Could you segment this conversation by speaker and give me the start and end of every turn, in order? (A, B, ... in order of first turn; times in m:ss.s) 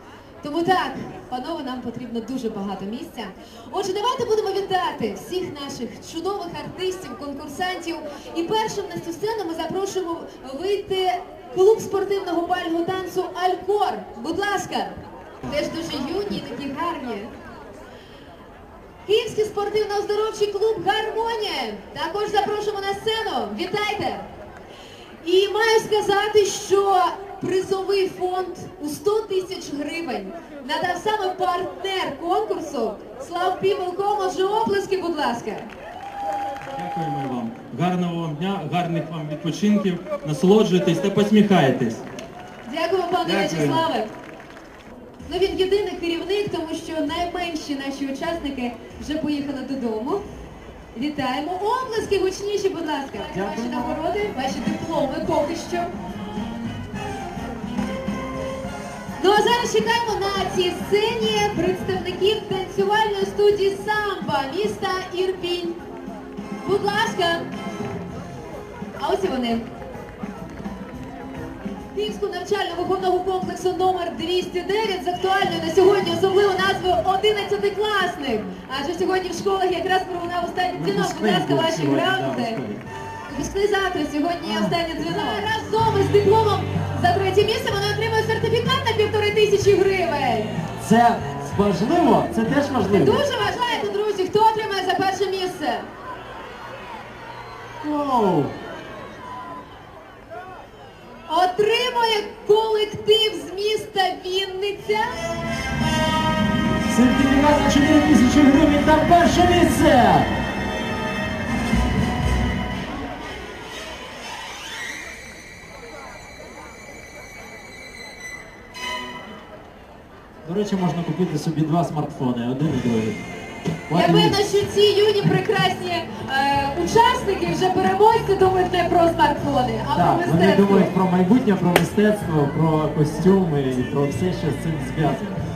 0:00.4-0:17.3 A
0:19.0-0:24.3 A
0:25.2-0:35.7 A
0:36.8-0:38.3 B
0:36.8-0:42.0 C
0:41.0-0:42.0 B
0:42.6-0:44.1 A
0:43.3-0:43.8 B
0:43.3-0:43.7 C
0:45.3-0:50.2 A
0:50.9-0:55.9 A
0:53.3-0:54.0 B
0:59.2-1:05.8 A
1:06.6-1:07.4 A
1:09.0-1:09.7 A
1:11.9-1:22.6 A
1:20.8-1:22.8 B
1:23.3-1:30.5 A
1:24.4-1:25.0 B
1:30.8-1:33.2 B
1:32.9-1:35.9 A
1:37.8-1:38.5 B
1:41.3-1:45.2 A
1:46.9-1:50.3 B
2:00.4-2:03.2 B
2:03.9-2:04.4 B
2:03.9-2:10.9 A
2:09.9-2:15.4 B